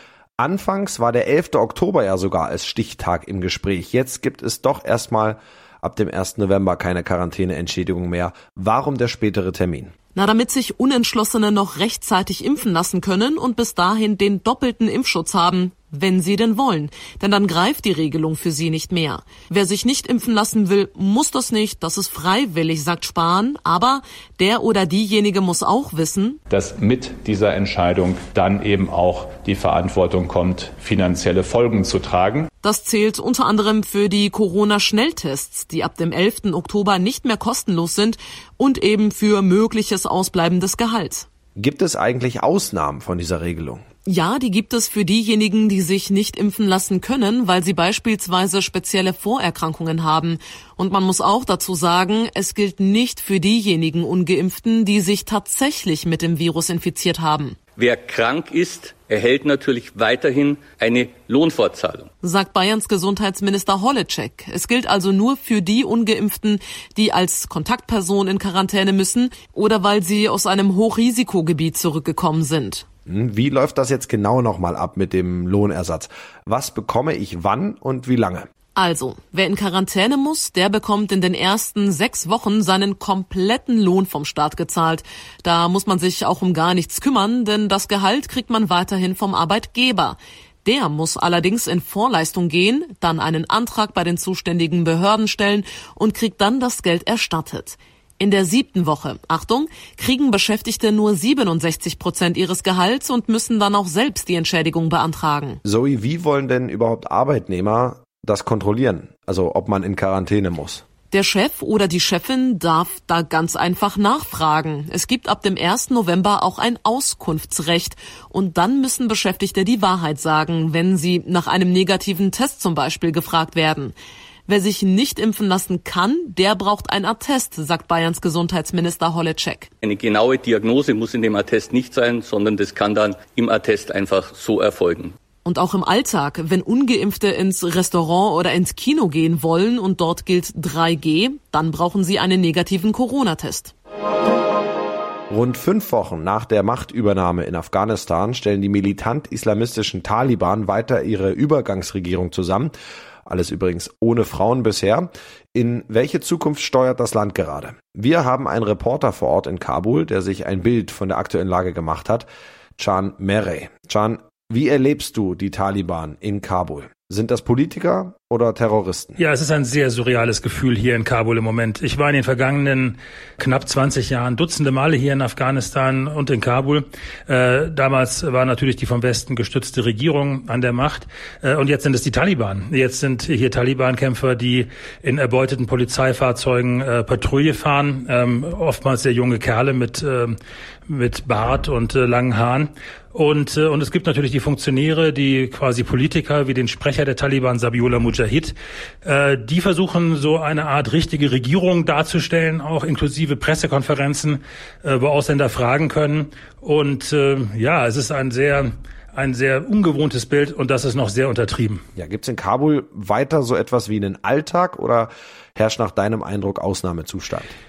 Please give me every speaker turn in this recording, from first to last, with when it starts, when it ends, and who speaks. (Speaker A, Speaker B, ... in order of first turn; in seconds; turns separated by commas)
Speaker A: 0.4-9.9, Speaker B: 10.2-26.4, Speaker C: 26.5-32.5, Speaker B: 32.6-41.3, Speaker A: 41.6-43.8, Speaker B: 44.1-57.6, Speaker D: 57.8-62.1, Speaker B: 62.2-72.9, Speaker A: 73.1-78.5, Speaker B: 78.8-105.6, Speaker A: 105.6-110.8, Speaker B: 111.1-124.0, Speaker B: 124.5-129.7, Speaker D: 129.8-135.2, Speaker B: 135.4-143.7, Speaker A: 145.3-152.7, Speaker A: 153.3-169.2, Speaker E: 169.2-190.4, Speaker E: 190.9-211.8, Speaker A: 212.0-217.6